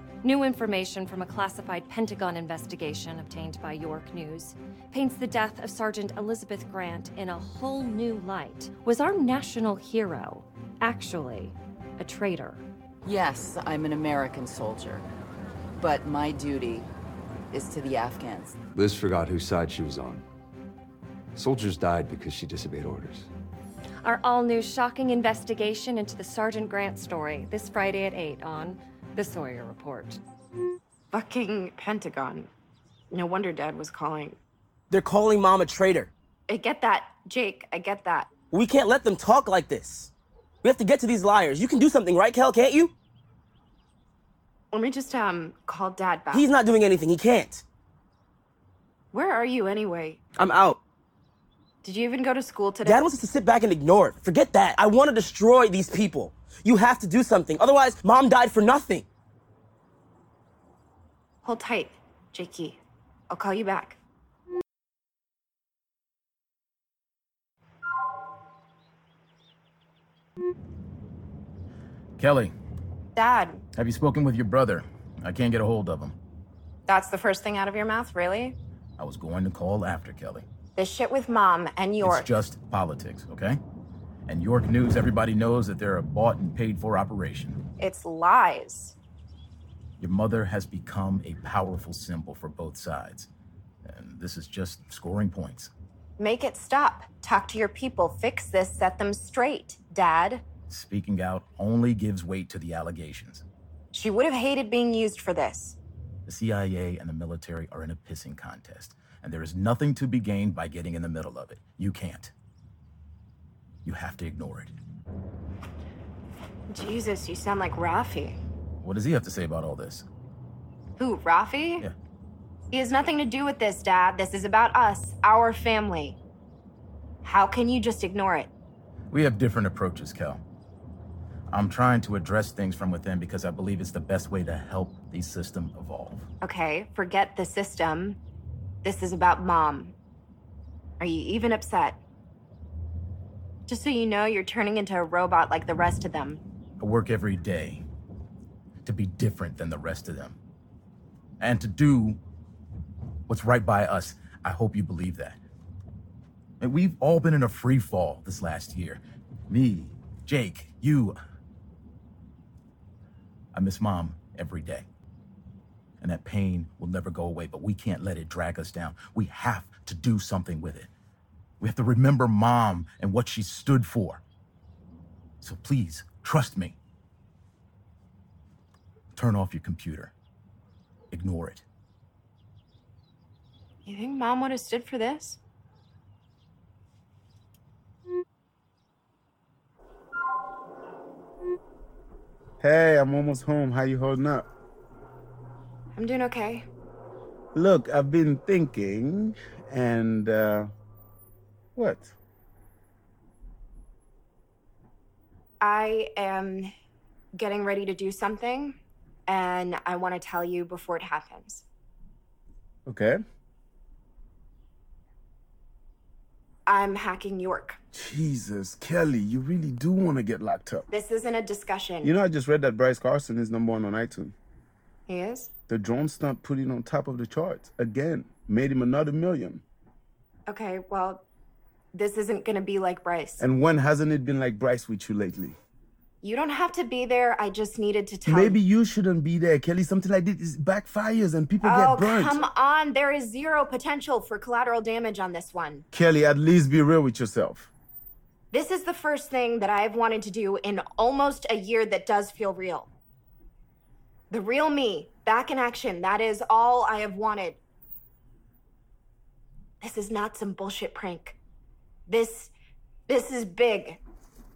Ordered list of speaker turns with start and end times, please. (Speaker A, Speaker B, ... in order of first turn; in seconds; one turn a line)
Speaker A: 0.2-12.6
Speaker B: 13.1-15.0
Speaker B: 15.8-16.9
Speaker B: 17.5-18.6
Speaker C: 18.7-20.2
Speaker C: 21.4-23.3
Speaker A: 24.1-30.2
Speaker D: 31.1-32.5
Speaker D: 33.1-34.4
Speaker E: 34.9-36.1
Speaker D: 36.5-38.3
Speaker E: 38.5-40.1
Speaker E: 40.6-42.9
Speaker D: 44.7-46.5
Speaker E: 46.3-47.6
Speaker D: 49.1-50.2
Speaker E: 50.4-50.8
Speaker D: 51.8-53.1
Speaker E: 52.8-59.1
Speaker D: 61.4-62.8
Speaker D: 63.3-64.0
Speaker F: 72.2-72.5
Speaker D: 73.2-73.6
Speaker F: 73.8-76.2
Speaker D: 76.9-78.6
Speaker F: 79.0-80.5
Speaker D: 80.8-82.3
Speaker F: 82.0-83.6
Speaker F: 84.3-87.6
Speaker D: 87.8-89.0
Speaker F: 90.0-93.3
Speaker F: 93.9-95.7
Speaker D: 96.2-100.5
Speaker F: 100.7-103.5
Speaker D: 103.9-105.8
Speaker F: 106.3-112.3
Speaker F: 113.8-114.7
Speaker D: 116.7-118.4
Speaker F: 118.8-120.1
Speaker D: 121.0-121.9
Speaker D: 122.7-126.2
Speaker D: 127.2-128.5
Speaker F: 129.1-130.4
Speaker F: 131.5-136.3
Speaker D: 136.4-138.2
Speaker D: 138.8-139.9
Speaker D: 141.0-142.0
Speaker D: 143.7-146.4
Speaker F: 146.8-147.8
Speaker F: 148.8-150.4
Speaker F: 151.4-152.2
Speaker F: 153.3-155.4
Speaker F: 156.6-161.2
Speaker F: 163.5-164.9
Speaker F: 166.0-170.9
Speaker F: 171.6-174.2
Speaker F: 175.4-176.8
Speaker F: 179.2-180.1
Speaker F: 181.1-181.6
Speaker D: 183.9-185.4
Speaker G: 192.6-194.5
Speaker D: 195.9-196.7
Speaker G: 197.5-200.7
Speaker G: 201.8-202.1
Speaker D: 205.6-206.7
Speaker D: 207.3-211.7
Speaker G: 212.9-213.2
Speaker D: 216.7-217.8
Speaker G: 217.9-220.9
Speaker D: 220.9-222.1
Speaker G: 222.0-224.3
Speaker D: 225.1-225.5
Speaker G: 225.7-229.6
Speaker D: 230.5-231.2
Speaker D: 231.9-233.4
Speaker G: 233.4-235.6
Speaker D: 236.2-238.6
Speaker G: 238.3-242.4
Speaker D: 241.6-245.8
Speaker G: 245.9-247.7
Speaker D: 248.5-252.9
Speaker D: 254.3-257.6
Speaker D: 259.8-261.4
Speaker D: 262.1-262.5
Speaker D: 263.1-264.0